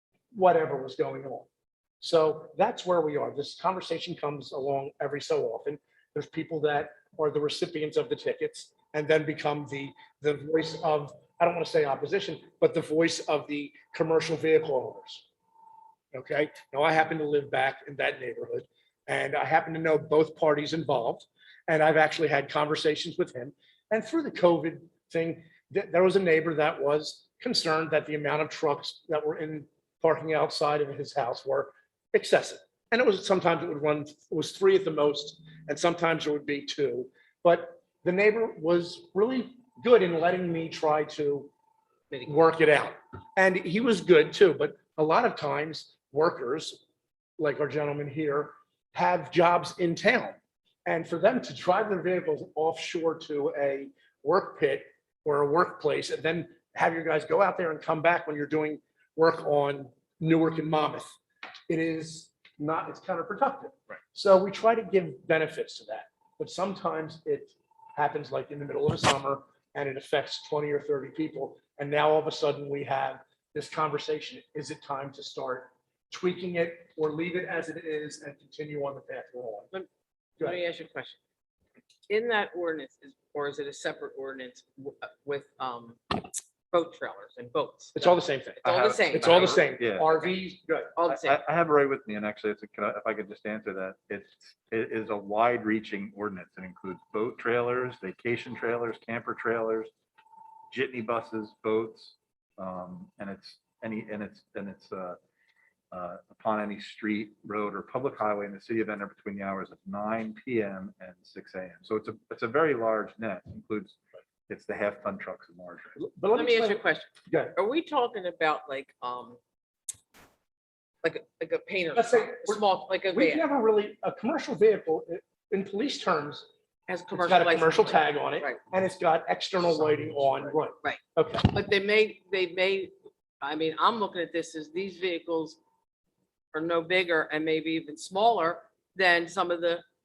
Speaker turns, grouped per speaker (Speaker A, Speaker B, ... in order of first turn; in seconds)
Speaker A: 0.3-1.5, 2.0-15.2, 16.1-41.5, 42.2-46.8, 47.4-61.2, 61.7-79.7, 87.9-90.9, 116.0-117.5, 121.9-126.5, 127.1-131.5
Speaker B: 80.4-81.2, 82.1-89.7, 90.9-91.4, 116.3-119.4, 121.0-123.5, 126.9-128.6, 130.8-135.6, 136.5-139.8
Speaker C: 88.6-90.1, 91.0-99.9, 100.7-105.2, 105.9-116.0